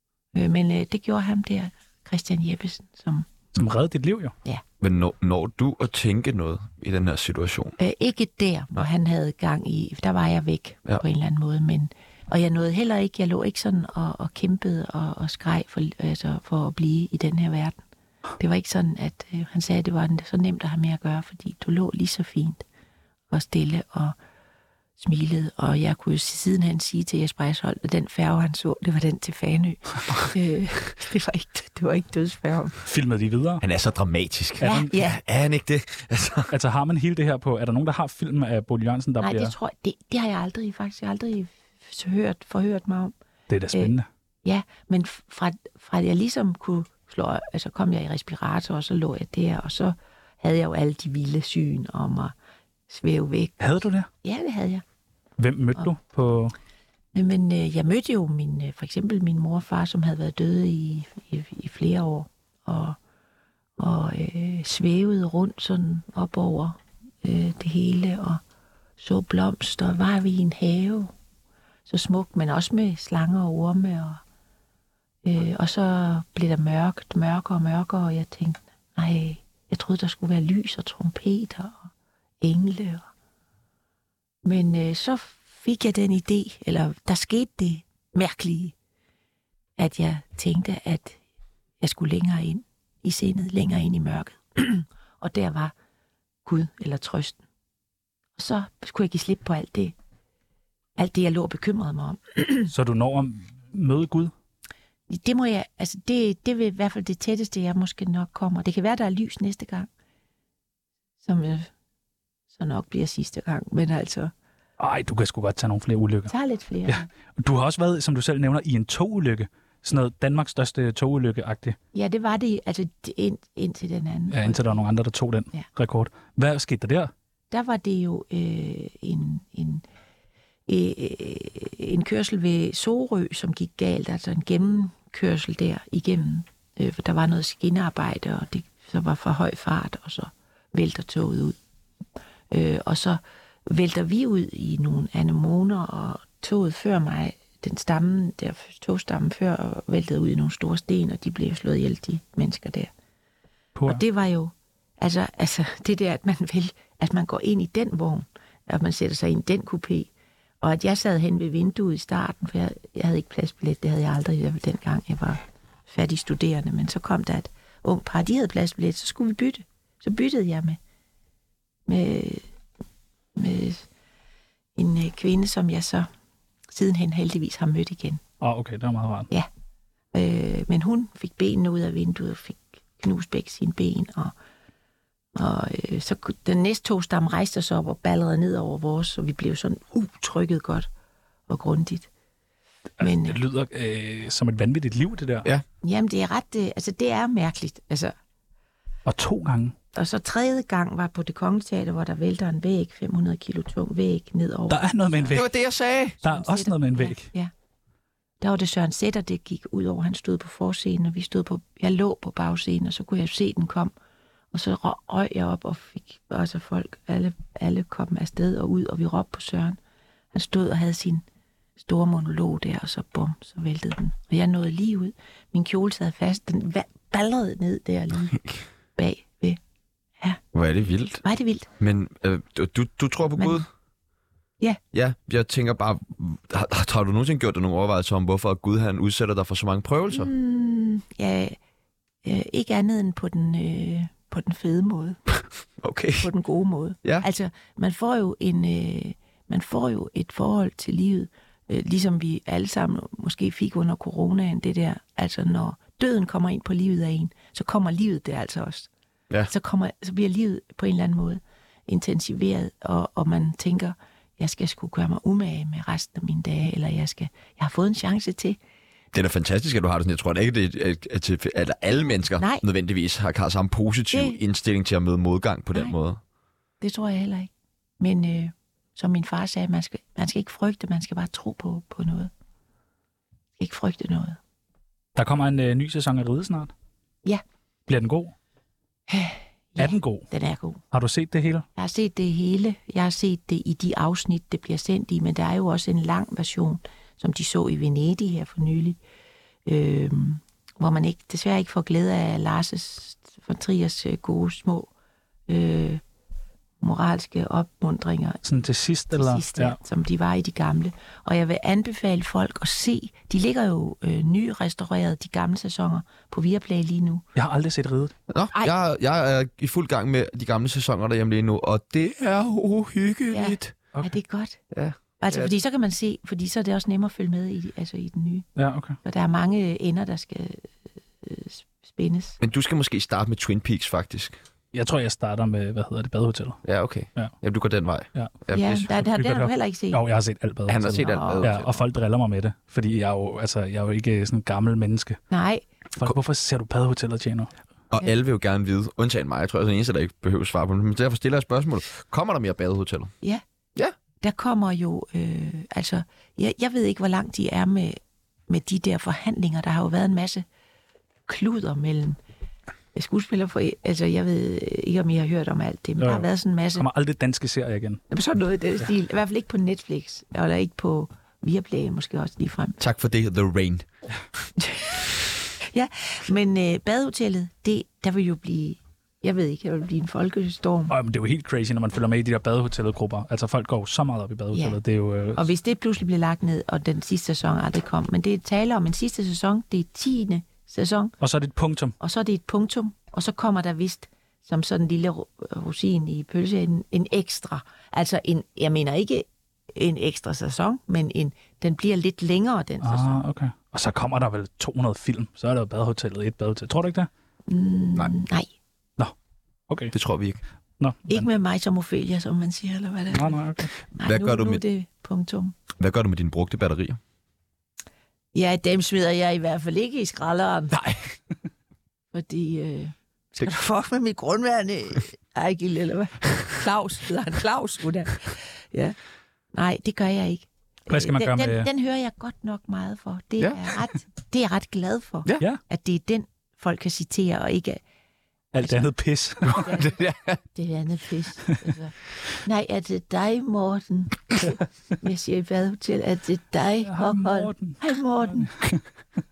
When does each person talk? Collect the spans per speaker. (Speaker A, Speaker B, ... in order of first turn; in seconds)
Speaker A: 0.3-3.3, 7.8-17.8, 18.4-22.6, 23.3-24.2, 25.0-32.8, 34.6-35.2, 39.2-43.1, 44.5-52.3, 52.9-53.5, 54.2-54.8, 57.1-63.0, 63.8-68.4, 69.0-71.1, 71.9-74.2, 75.2-83.1, 84.5-88.8, 89.8-91.2, 91.8-95.7, 96.5-97.4, 98.4-100.0, 101.0-102.7, 105.1-109.9, 111.2-111.7, 112.5-114.3, 116.3-117.1, 121.9-124.8, 127.5-129.8, 130.7-141.6, 142.5-152.9, 153.9-160.1, 160.6-170.8, 171.9-172.4, 173.4-173.9, 174.8-176.1, 176.7-178.2, 180.1-184.3, 185.3-190.9, 191.5-192.1, 193.0-193.4, 195.8-198.1, 199.9-205.4, 206.2-207.5, 208.4-213.9, 214.5-219.8, 220.3-221.2, 221.8-228.4, 229.0-229.6, 231.2-231.7, 233.4-233.6, 240.1-241.6, 242.2-245.2, 246.2-258.9, 259.5-268.6, 272.4-272.6, 274.1-274.4, 276.8-282.3, 283.6-284.4, 289.1-290.8, 291.8-299.0, 299.7-304.9, 305.5-306.0, 306.8-308.4, 309.1-317.2, 323.3-324.6, 325.2-328.5, 329.0-330.7, 331.2-332.4, 338.5-340.0, 341.0-341.5, 345.3-345.7, 354.2-360.4, 361.3-362.2, 362.9-366.9, 368.1-372.8, 374.6-374.9, 375.7-380.9, 384.5-384.8, 385.4-391.1, 392.0-403.2, 407.5-408.5, 411.1-413.4, 413.9-415.6, 418.3-420.8, 422.1-429.0, 429.5-437.8, 439.5-439.9, 440.5-448.5
Speaker B: 3.5-4.3, 32.9-33.6, 34.6-34.9, 36.5-39.5, 43.5-44.1, 53.6-54.1, 55.4-56.5, 102.7-104.3, 114.8-116.3, 116.9-121.8, 124.3-127.1, 153.8-154.0, 178.4-179.3, 193.0-195.5, 199.1-199.8, 204.7-205.5, 206.2-207.3, 285.2-286.7, 287.9-288.3, 289.8-290.3, 290.9-291.7, 308.4-309.8, 317.4-318.1, 328.6-329.0, 334.7-336.6, 338.1-345.2, 346.0-347.5, 366.0-368.0, 380.9-385.5, 391.2-391.9, 402.8-407.1, 409.7-409.9, 410.8-411.3, 413.1-413.7, 430.9-431.7, 438.5-439.6, 446.9-448.8
Speaker C: 4.8-7.8, 33.6-36.5, 205.3-206.2, 230.5-231.2, 231.8-233.7, 234.9-240.3, 245.8-246.3, 269.1-276.2, 318.3-323.8, 324.7-325.5, 332.4-334.4, 336.6-338.9, 340.7-341.7, 347.9-353.1, 372.8-373.9, 409.9-410.4, 414.0-414.6, 415.8-417.0, 420.7-421.1, 433.4-433.7, 439.5-440.4